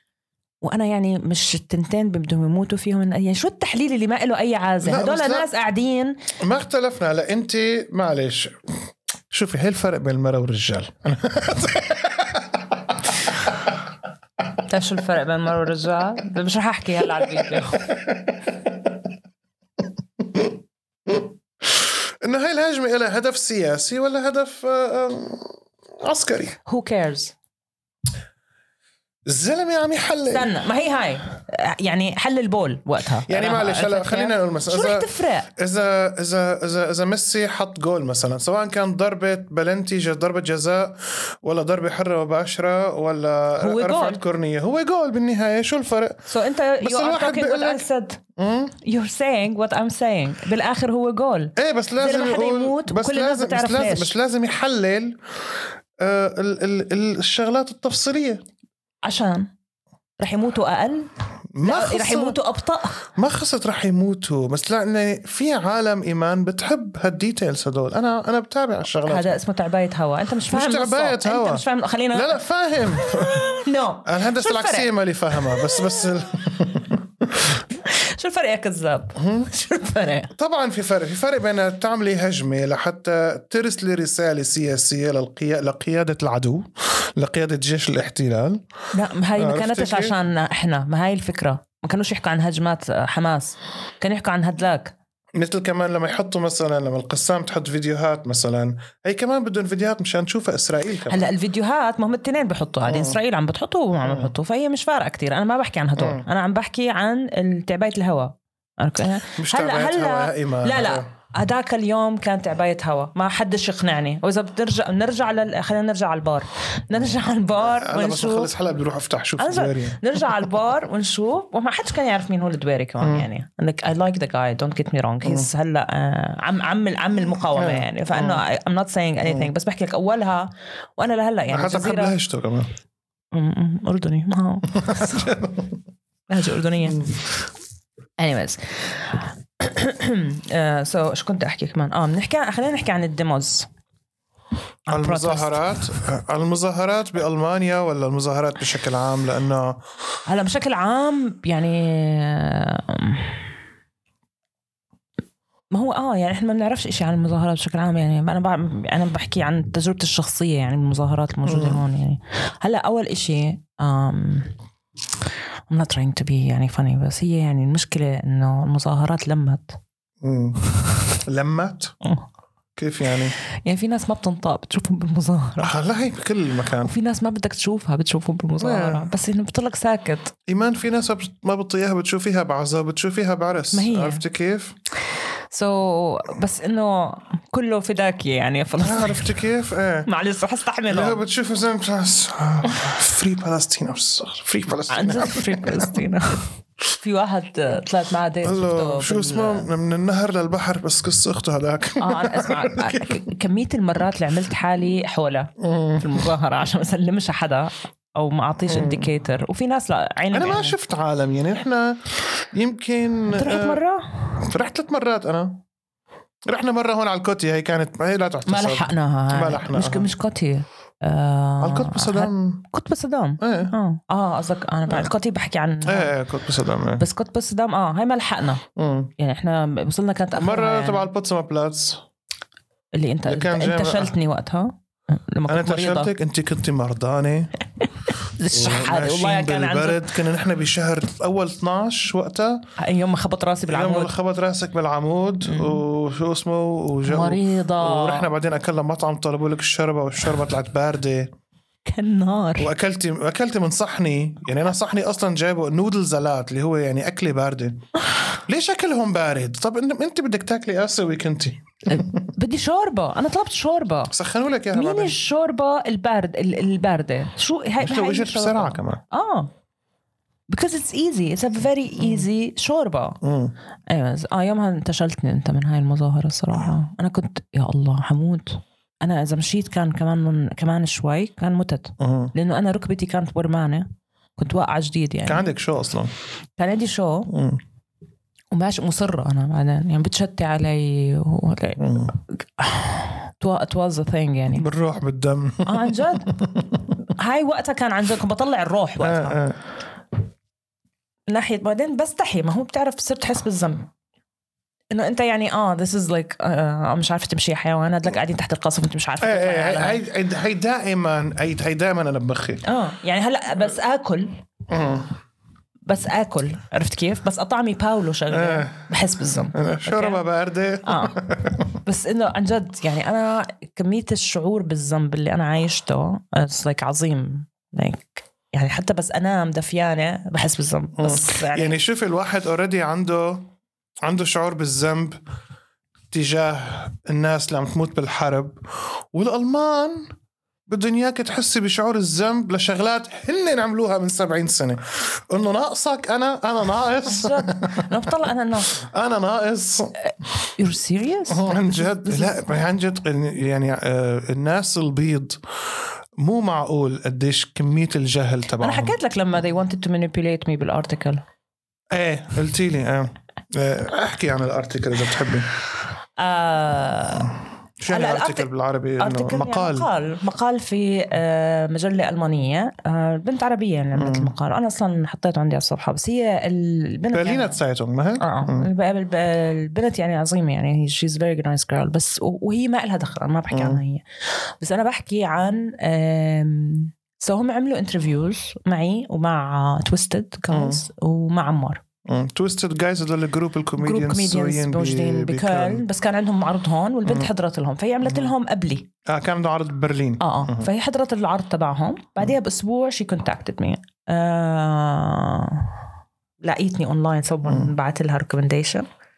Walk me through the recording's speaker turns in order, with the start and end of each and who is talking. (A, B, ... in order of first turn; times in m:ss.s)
0:00.6-0:06.2 A
0:04.8-0:05.5 B
0:06.4-0:08.8 B
0:09.3-0:13.1 B
0:14.6-0:17.9 A
0:17.8-0:18.9 B
0:20.2-0:20.5 B
0:21.1-0:26.6 B
0:26.6-0:27.3 A
0:29.3-0:30.5 B
0:30.3-0:35.5 A
0:33.2-0:46.3 B
0:43.6-0:44.2 A
0:46.3-0:48.2 A
0:46.8-0:48.7 B
0:48.8-0:54.1 A
0:51.6-0:55.2 B
0:56.0-0:58.4 B
0:59.0-0:59.5 A
1:00.2-1:01.1 A
1:01.5-1:02.4 B
1:01.6-1:03.0 A
1:03.1-1:09.4 B
1:09.0-1:12.4 A
1:10.5-1:17.6 B
1:13.1-1:16.0 A
1:17.7-1:20.3 A
1:19.2-1:19.5 B
1:20.3-1:28.6 B
1:28.9-1:34.9 A
1:29.4-1:30.2 B
1:35.3-1:41.3 B
1:41.1-1:58.5 A
1:42.9-1:43.2 B
1:44.0-1:44.3 B
1:46.0-1:46.2 B
1:49.4-1:51.0 B
1:57.6-2:00.4 B
1:59.4-2:12.1 A
2:03.0-2:03.3 B
2:07.5-2:08.4 B
2:09.2-2:09.5 B
2:11.5-2:12.7 B
2:13.3-2:15.3 A
2:14.8-2:15.7 B
2:16.3-2:17.1 A
2:16.8-2:17.1 B
2:18.2-2:23.7 A
2:24.9-2:25.6 A
2:24.9-2:29.8 B
2:30.2-2:33.4 A
2:35.7-2:44.5 A
2:41.4-2:41.8 B
2:45.7-2:49.8 A
2:50.2-2:50.6 B
2:51.1-2:51.9 B
2:52.8-2:53.3 B
2:53.6-2:55.7 A
2:55.6-2:56.9 B
2:56.8-3:00.4 A
2:58.6-2:59.1 B
3:00.5-3:04.8 B
3:03.7-3:04.2 A
3:05.5-3:09.3 A
3:08.8-3:10.1 B
3:10.0-3:11.2 A
3:10.9-3:16.0 B
3:14.9-3:19.7 A
3:18.4-3:23.2 B
3:22.0-3:30.8 A
3:25.6-3:26.1 B
3:28.7-3:29.1 B
3:30.3-3:33.8 B
3:33.3-3:34.4 A
3:34.4-3:35.6 B
3:36.5-3:40.1 B
3:38.5-3:46.1 A
3:41.6-3:42.6 B
3:43.4-3:43.7 B
3:45.8-3:47.0 B
3:47.0-3:48.6 A
3:48.8-3:49.1 B
3:49.2-3:51.1 A
3:50.3-3:52.0 B
3:52.9-3:56.1 A
3:53.2-3:54.1 B
3:55.5-3:57.5 B
3:57.8-4:00.1 A
3:58.4-4:02.6 B
4:02.8-4:04.1 A
4:03.7-4:11.3 B
4:05.4-4:05.8 A
4:07.0-4:08.3 A
4:11.9-4:12.7 A
4:12.6-4:17.8 B
4:18.4-4:22.3 B
4:21.9-4:24.1 A
4:24.1-4:25.2 B
4:24.7-4:29.5 A
4:27.8-4:29.0 B
4:30.5-4:33.2 A
4:32.0-4:32.2 B
4:33.2-4:33.5 B
4:33.9-4:45.5 A
4:42.0-4:42.3 B
4:45.2-4:46.1 B
4:46.6-4:47.3 A
4:47.3-4:47.6 B
4:48.5-4:54.6 A
4:51.8-4:52.1 B
4:54.6-4:56.8 B
4:55.6-4:56.4 A
4:57.1-4:59.4 A
4:59.0-4:59.6 B
5:01.3-5:03.9 A
5:04.9-5:10.0 A
5:09.2-5:12.6 B
5:12.6-5:14.4 A
5:14.7-5:15.1 B
5:15.9-5:20.2 A
5:18.3-5:18.8 B
5:19.5-5:21.7 B
5:20.8-5:21.2 A
5:21.8-5:31.8 A
5:31.0-5:33.5 B
5:34.0-5:35.2 B
5:36.1-5:40.1 B
5:40.7-5:48.0 B
5:47.0-5:48.7 A
5:48.7-5:49.9 B
5:50.6-5:52.4 A
5:51.3-5:55.4 B
5:56.2-5:59.0 B
5:58.6-6:01.2 A
6:01.9-6:05.5 B
6:06.2-6:07.3 A
6:07.8-6:09.9 B
6:07.9-6:08.5 A
6:09.0-6:17.6 A
6:14.0-6:14.3 B
6:17.1-6:18.7 B
6:18.2-6:31.8 A
6:23.5-6:23.8 B
6:30.5-6:30.8 B
6:32.0-6:35.8 B
6:33.8-6:38.9 A
6:38.0-6:38.3 B
6:39.0-6:40.7 B
6:40.2-6:45.8 A
6:46.4-6:48.9 A
6:47.4-6:47.7 B